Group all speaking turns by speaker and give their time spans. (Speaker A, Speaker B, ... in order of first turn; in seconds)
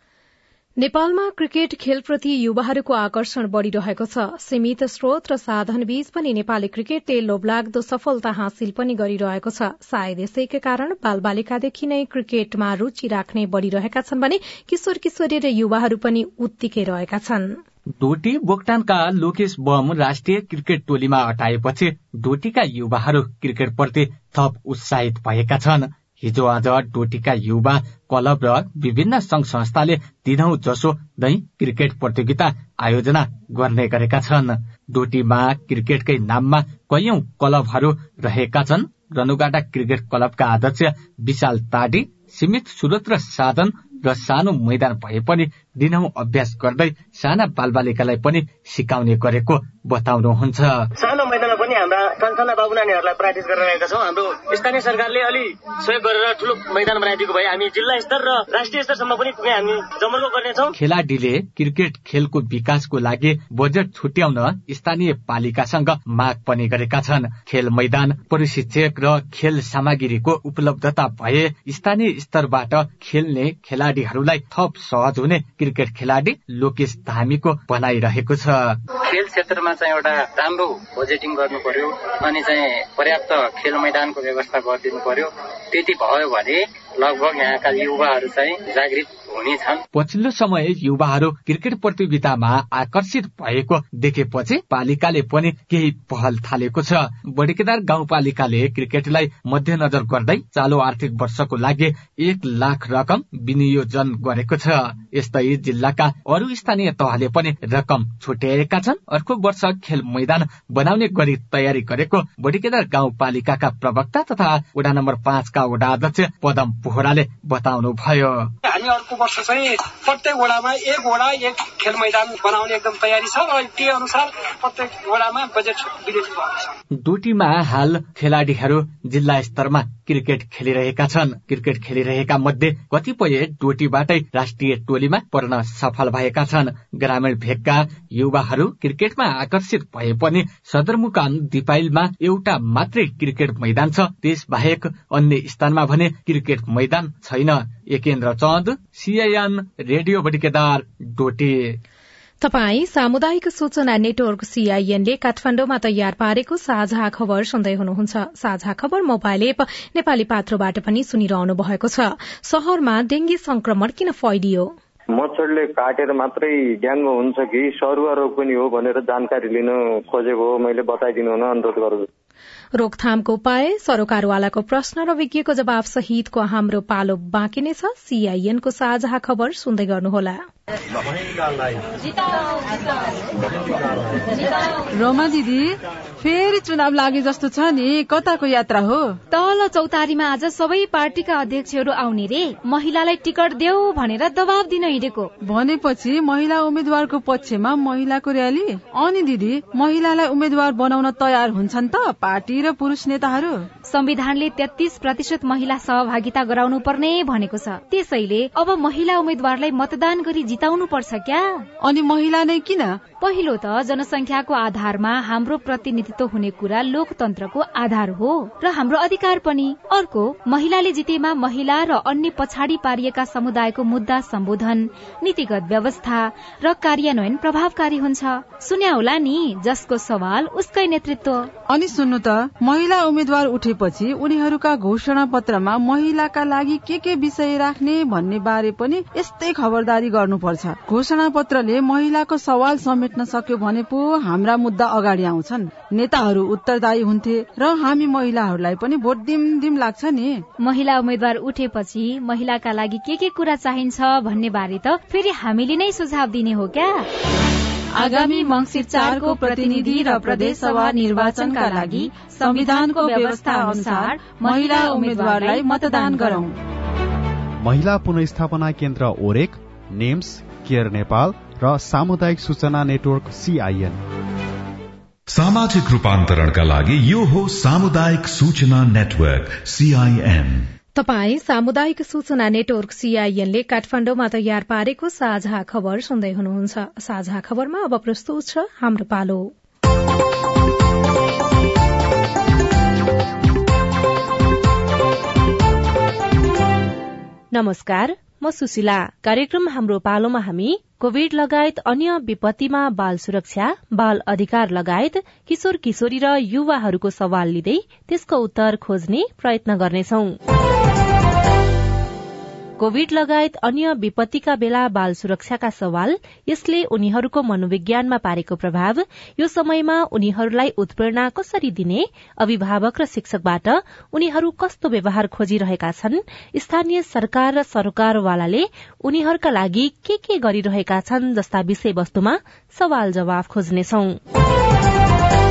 Speaker A: 0.8-17.5, 152.4-164.7, 172.8-180.4, 280.9-289.5
Speaker B: 18.0-50.9, 60.8-78.8, 89.9-118.5, 127.0-151.8
Speaker C: 51.0-60.7
Speaker D: 79.0-89.8
Speaker E: 118.6-126.7
Speaker F: 165.1-172.1
Speaker G: 184.9-189.2, 195.4-203.7, 211.8-213.0, 231.7-250.4, 258.0-266.5
Speaker H: 189.3-195.3, 203.8-211.7, 213.2-231.5, 250.6-257.0, 258.1-266.4
Speaker I: 267.6-274.0
Speaker J: 275.3-280.7
Speaker K: 297.5-310.4, 312.8-334.2